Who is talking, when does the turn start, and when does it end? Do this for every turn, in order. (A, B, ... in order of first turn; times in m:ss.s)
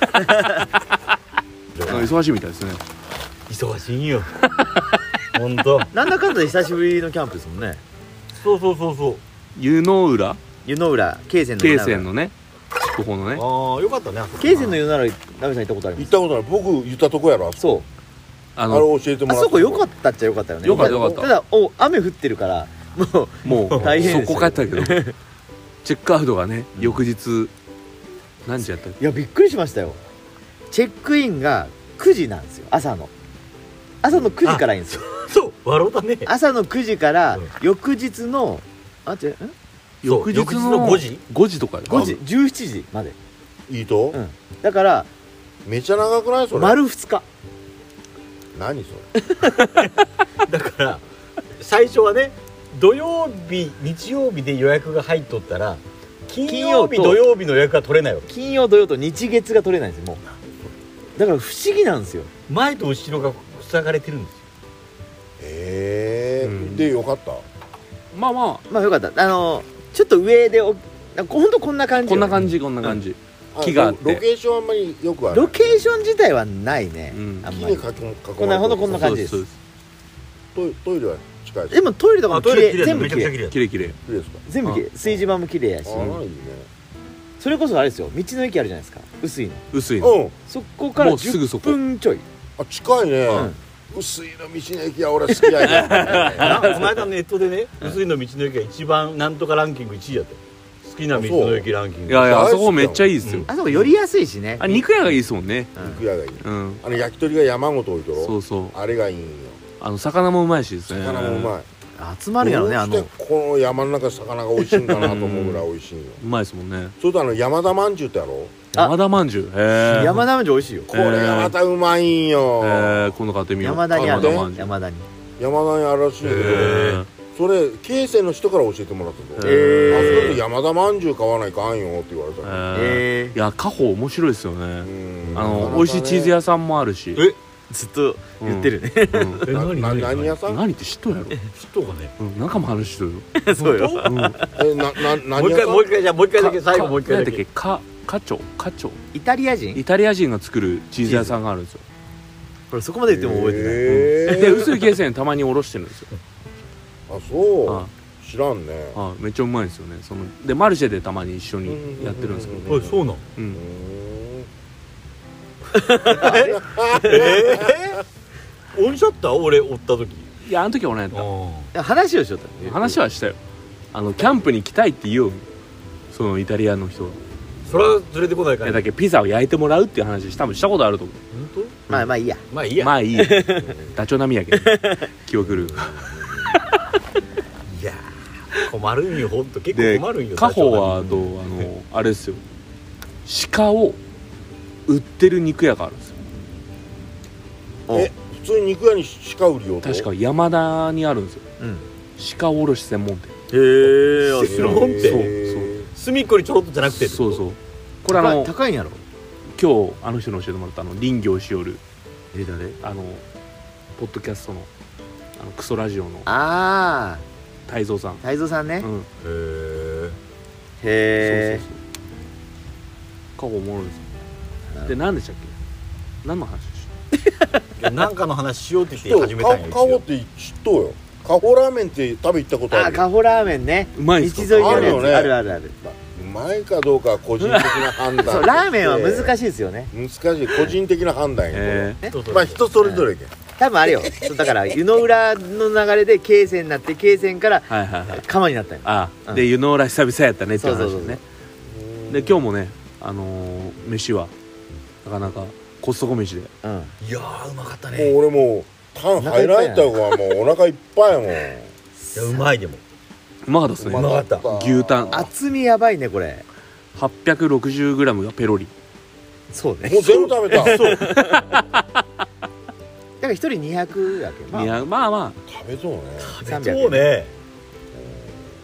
0:00.1-0:00.7 A
0:01.7-0:02.1 B
0:01.8-0:02.8 C
0:03.5-0:04.3 D
0:04.5-0:04.8 C
0:05.3-0:05.9 D
0:05.9-0:07.8 A
0:08.4-0:09.2 D
0:09.5-0:10.4 C
0:10.6-0:12.1 A
0:11.6-0:13.4 C
0:13.3-0:14.8 D
0:14.4-0:16.1 A
0:16.0-0:17.8 B
0:17.6-0:17.8 A
0:18.6-0:18.9 C
0:18.7-0:19.9 B
0:19.3-0:25.1 A
0:20.6-0:21.3 C
0:20.7-0:21.2 B
0:23.4-0:25.0 C
0:23.5-0:24.3 D
0:25.8-0:27.5 C
0:26.8-0:27.0 A
0:28.4-0:29.0 C
0:29.0-0:30.0 A
0:30.7-0:33.1 A
0:34.0-0:35.0 A
0:34.4-0:36.3 D
0:36.2-0:39.5 A
0:40.0-0:42.2 C
0:40.0-0:41.2 D
0:41.9-0:42.1 D
0:41.9-0:43.2 A
0:43.7-0:44.2 B
0:44.1-0:45.1 A
0:45.6-0:46.8 B
0:46.5-0:47.2 A
0:48.5-0:49.1 B
0:50.4-0:51.0 D
0:51.6-0:58.3 D
0:56.4-0:57.2 A
0:58.3-1:00.2 A
1:01.2-1:02.3 A
1:02.5-1:04.4 D
1:05.4-1:07.4 B
1:06.4-1:06.9 C
1:08.1-1:08.6 C
1:08.7-1:12.5 A
1:12.0-1:14.2 C
1:13.5-1:16.1 B
1:15.3-1:19.4 A
1:17.1-1:17.5 C
1:17.5-1:19.2 B
1:18.9-1:19.5 C
1:20.5-1:21.8 B
1:21.7-1:23.3 A
1:22.3-1:23.6 D
1:22.8-1:24.0 C
1:24.0-1:24.4 B
1:24.4-1:26.2 A
1:25.8-1:26.7 B
1:27.4-1:29.7 A
1:29.7-1:30.2 C
1:30.0-1:30.4 B
1:30.4-1:32.2 A
1:31.0-1:31.8 C
1:32.6-1:36.8 B
1:33.3-1:33.6 A
1:35.6-1:37.1 C
1:36.3-1:42.5 D
1:41.1-1:41.7 B
1:42.1-1:43.5 C
1:42.2-1:43.1 B
1:43.2-1:43.9 D
1:43.5-1:44.8 A
1:44.6-1:45.7 C
1:45.8-1:46.0 A
1:45.8-1:49.6 B
1:46.4-1:46.8 C
1:48.1-1:48.8 C
1:49.8-1:51.6 C
1:50.9-1:51.7 B
1:52.0-1:53.1 A
1:52.4-1:56.2 B
1:54.9-1:55.7 C
1:56.2-1:56.9 C
1:57.0-1:58.6 B
1:58.7-2:00.2 C
1:59.8-2:00.2 D
2:00.0-2:00.9 A
2:00.9-2:03.1 B
2:00.9-2:01.6 C
2:02.6-2:04.7 C
2:03.6-2:05.1 A
2:04.0-2:04.5 B
2:05.4-2:12.6 B
2:06.2-2:07.0 D
2:06.4-2:07.1 C
2:09.4-2:10.4 C
2:09.4-2:10.4 A
2:12.4-2:17.2 C
2:12.7-2:13.4 A
2:14.8-2:16.3 B
2:15.3-2:15.7 D
2:17.7-2:19.4 A
2:18.4-2:19.4 C
2:19.4-2:20.4 D
2:19.5-2:20.6 B
2:20.3-2:21.4 C
2:21.5-2:22.1 D
2:22.2-2:23.3 C
2:23.4-2:24.6 A
2:23.5-2:24.1 D
2:24.0-2:24.4 C
2:24.6-2:25.9 B
2:25.3-2:27.4 D
2:26.3-2:29.0 C
2:29.1-2:29.8 A
2:29.7-2:31.8 C
2:31.0-2:31.4 D
2:32.7-2:34.4 A
2:33.1-2:34.8 B
2:34.2-2:36.1 C
2:37.1-2:39.0 B
2:38.9-2:42.7 C
2:41.6-2:43.0 B
2:42.7-2:43.2 D
2:43.5-2:44.5 B
2:45.7-2:47.4 A
2:46.0-2:47.8 B
2:47.0-2:48.0 D
2:48.7-2:50.3 D
2:50.4-2:51.3 C
2:51.1-2:51.7 D
2:51.7-2:53.0 A
2:52.6-2:53.4 C
2:53.9-2:55.4 C
2:56.1-2:57.2 C
2:57.6-2:58.9 D
2:58.6-3:01.2 C
3:01.3-3:01.8 D
3:01.9-3:02.4 A
3:02.5-3:03.0 D
3:02.8-3:05.9 C
3:03.2-3:03.7 A
3:05.4-3:06.5 B
3:07.7-3:11.6 D
3:09.7-3:12.4 C
3:13.2-3:14.0 C
3:14.9-3:16.2 C
3:17.9-3:20.1 B
3:19.8-3:21.4 C
3:21.6-3:21.8 A
3:22.2-3:23.3 C
3:23.5-3:25.0 A
3:23.9-3:25.3 D
3:24.4-3:25.7 C
3:24.4-3:25.9 B
3:25.9-3:27.4 D
3:26.9-3:28.5 C
3:28.1-3:29.0 A
3:29.5-3:31.8 C
3:32.3-3:32.8 A
3:32.8-3:33.2 C
3:34.0-3:34.7 C
3:35.4-3:36.3 C
3:36.2-3:37.2 A
3:37.7-3:38.2 C
3:38.2-3:38.9 A
3:38.8-3:39.1 C
3:39.2-3:40.2 D
3:40.8-3:41.6 A
3:41.2-3:41.8 C
3:43.4-3:44.0 C
3:44.7-3:45.0 A
3:44.9-3:45.5 C
3:46.2-3:46.9 C
3:47.2-3:47.6 A
3:47.8-3:50.0 D
3:49.0-3:53.0 B
3:52.7-3:55.7 A
3:53.9-3:55.1 C
3:54.5-3:59.4 B
3:57.4-3:58.1 C
3:58.2-3:59.9 A
3:59.9-4:03.3 B
4:01.5-4:02.0 C
4:02.1-4:02.6 D
4:02.8-4:03.1 A
4:03.6-4:09.4 A
4:07.7-4:08.2 C
4:08.8-4:11.2 C
4:10.5-4:11.2 A
4:11.7-4:12.4 B
4:12.1-4:14.3 C
4:15.0-4:16.5 C
4:16.6-4:16.9 A
4:17.0-4:18.1 D
4:17.9-4:21.7 B
4:19.2-4:19.9 A
4:22.0-4:22.4 A
4:22.1-4:22.8 D
4:23.4-4:25.2 C
4:23.8-4:25.3 B
4:23.9-4:24.4 D
4:25.1-4:26.4 A
4:26.9-4:28.7 C
4:29.5-4:31.4 A
4:29.8-4:31.0 B
4:30.5-4:31.2 D
4:31.1-4:31.8 C
4:33.2-4:34.8 A
4:34.5-4:35.4 C
4:35.5-4:36.4 B
4:36.2-4:37.3 D
4:36.4-4:37.1 A
4:37.9-4:38.4 B